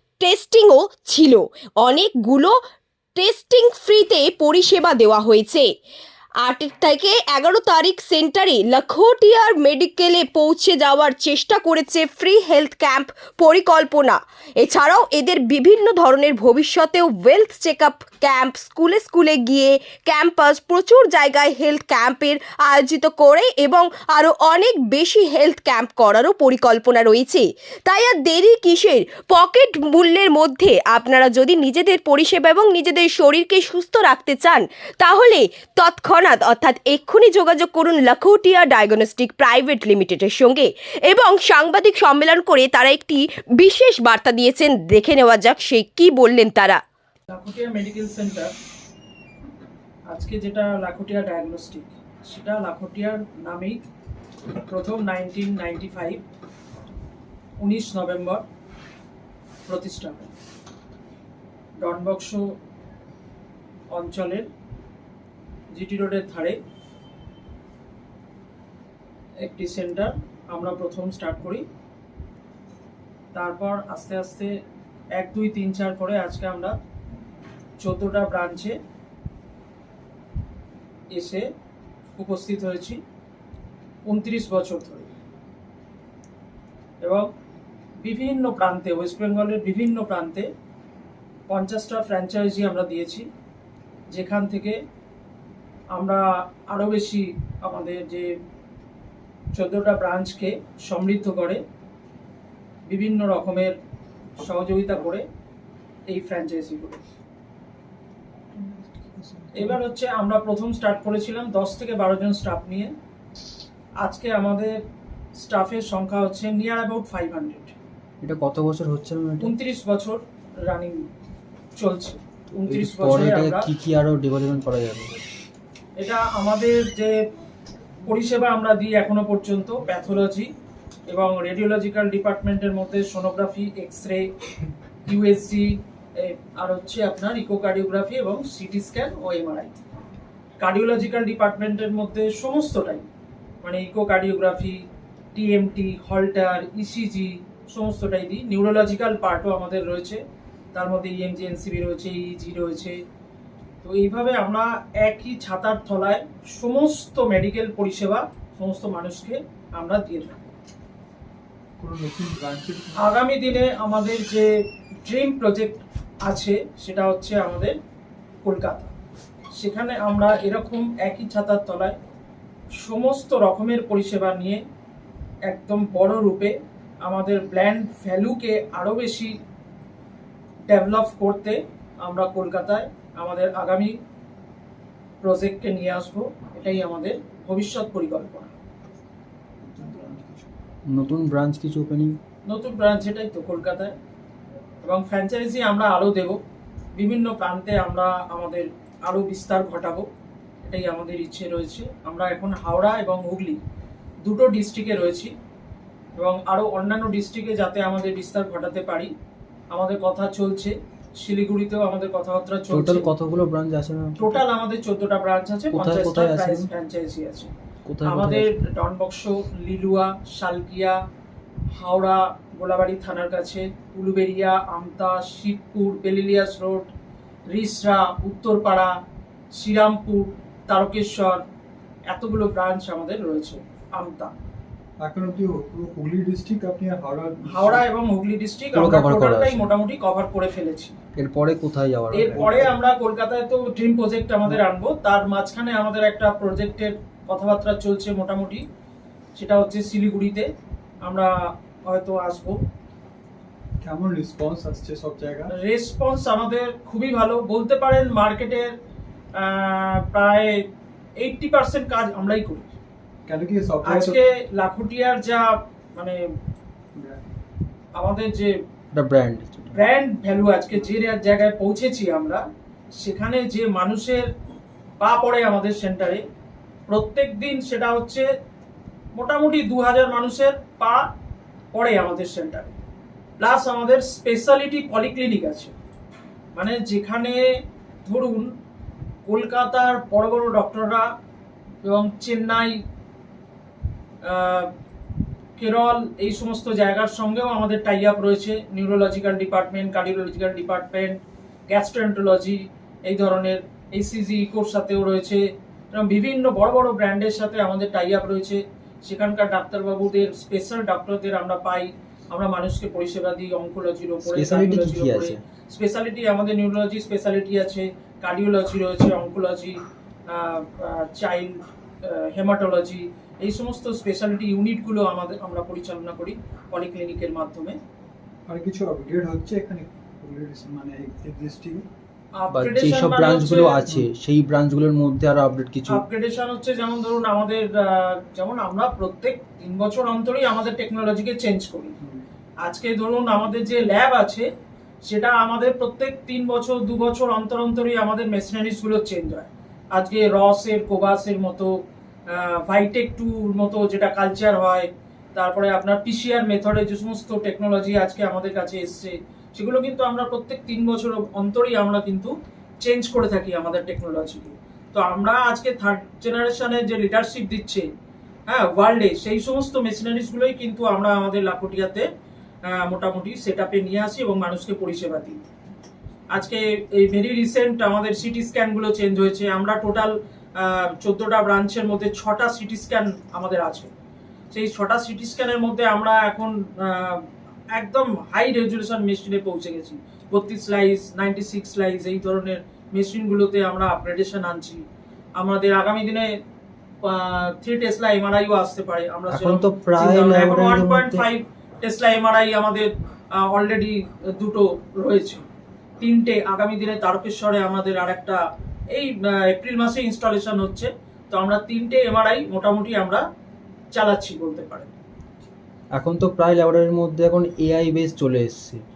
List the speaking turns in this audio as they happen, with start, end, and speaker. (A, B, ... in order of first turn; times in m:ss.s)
0:00.2-0:02.6 A
0:03.2-0:05.7 A
0:06.4-0:46.8 A
0:47.3-0:48.5 B
0:50.1-0:53.8 B
0:54.7-0:56.2 B
0:57.6-0:58.4 B
0:59.7-1:00.3 B
1:01.8-1:02.5 B
1:03.9-1:04.5 B
1:05.7-1:06.6 B
1:09.4-1:11.6 B
1:13.3-1:14.5 B
1:15.1-1:16.8 B
1:17.8-1:18.8 B
1:21.1-1:21.4 B
1:22.1-1:23.0 B
1:24.0-1:25.1 B
1:27.0-1:27.3 B
1:28.0-1:30.5 B
1:31.5-1:33.3 B
1:34.1-1:34.8 B
1:35.9-1:38.3 B
1:39.5-1:41.6 B
1:42.8-1:43.7 B
1:44.4-1:45.2 B
1:46.1-1:47.0 B
1:49.6-1:52.9 B
1:54.0-1:54.7 B
1:55.4-1:57.7 B
1:58.2-1:59.5 C
1:59.4-2:01.0 B
2:01.8-2:03.7 B
2:02.7-2:05.2 C
2:06.0-2:07.1 B
2:08.0-2:10.5 B
2:11.1-2:14.3 B
2:15.0-2:19.7 B
2:20.6-2:23.0 B
2:23.6-2:30.2 B
2:30.7-2:33.0 B
2:33.8-2:40.5 B
2:41.8-2:43.1 D
2:43.0-2:44.5 B
2:45.0-2:47.7 B
2:48.4-2:48.9 B
2:49.6-2:51.9 B
2:52.8-2:54.6 B
2:55.5-2:59.4 B
3:00.7-3:03.9 B
3:05.2-3:08.5 B
3:09.6-3:10.4 D
3:10.9-3:12.2 C
3:12.4-3:13.9 B
3:14.8-3:16.4 B
3:16.9-3:20.0 B
3:20.6-3:23.6 B
3:24.2-3:25.3 B
3:26.2-3:29.1 B
3:29.7-3:33.0 B
3:32.7-3:34.4 C
3:34.2-3:37.5 B
3:35.7-3:36.7 C
3:37.9-3:38.5 C
3:38.0-3:41.0 B
3:41.7-3:46.9 B
3:47.5-3:48.9 B
3:49.5-3:51.4 B
3:52.1-3:54.3 B
3:55.0-3:57.8 D
3:57.5-4:00.9 B
3:58.7-3:59.6 C
4:01.2-4:02.5 C
4:02.1-4:08.6 B
4:02.2-4:02.7 D
4:09.4-4:10.5 B
4:11.0-4:11.3 B
4:11.8-4:12.6 B
4:13.8-4:15.5 D
4:15.6-4:18.7 B
4:19.4-4:20.6 B
4:21.2-4:22.7 B
4:23.2-4:24.2 D
4:23.8-4:26.2 B
4:26.9-4:27.2 D
4:27.9-4:28.5 B
4:28.9-4:29.8 C
4:29.7-4:32.4 B
4:33.0-4:34.3 B
4:35.0-4:36.2 B
4:36.9-4:38.2 B
4:39.1-4:41.0 B
4:41.7-4:42.7 B
4:43.4-4:45.7 B
4:46.5-4:47.4 B
4:48.0-4:48.5 B
4:49.3-4:51.0 B
4:51.8-4:52.8 B
4:54.2-4:54.7 B
4:55.6-5:27.8 B
5:14.2-5:15.4 C
5:28.5-5:31.8 D
5:32.4-5:33.8 B
5:32.5-5:36.0 C
5:35.9-5:41.9 B
5:42.6-5:44.5 B
5:45.0-6:07.8 B
6:08.5-6:12.1 B
6:12.7-6:15.4 B
6:16.3-6:23.9 B
6:24.5-6:34.8 B
6:35.4-6:36.3 B
6:37.0-6:45.4 B
6:39.3-6:41.2 C
6:46.0-6:53.2 B
6:53.9-6:54.9 B
6:55.9-6:58.8 C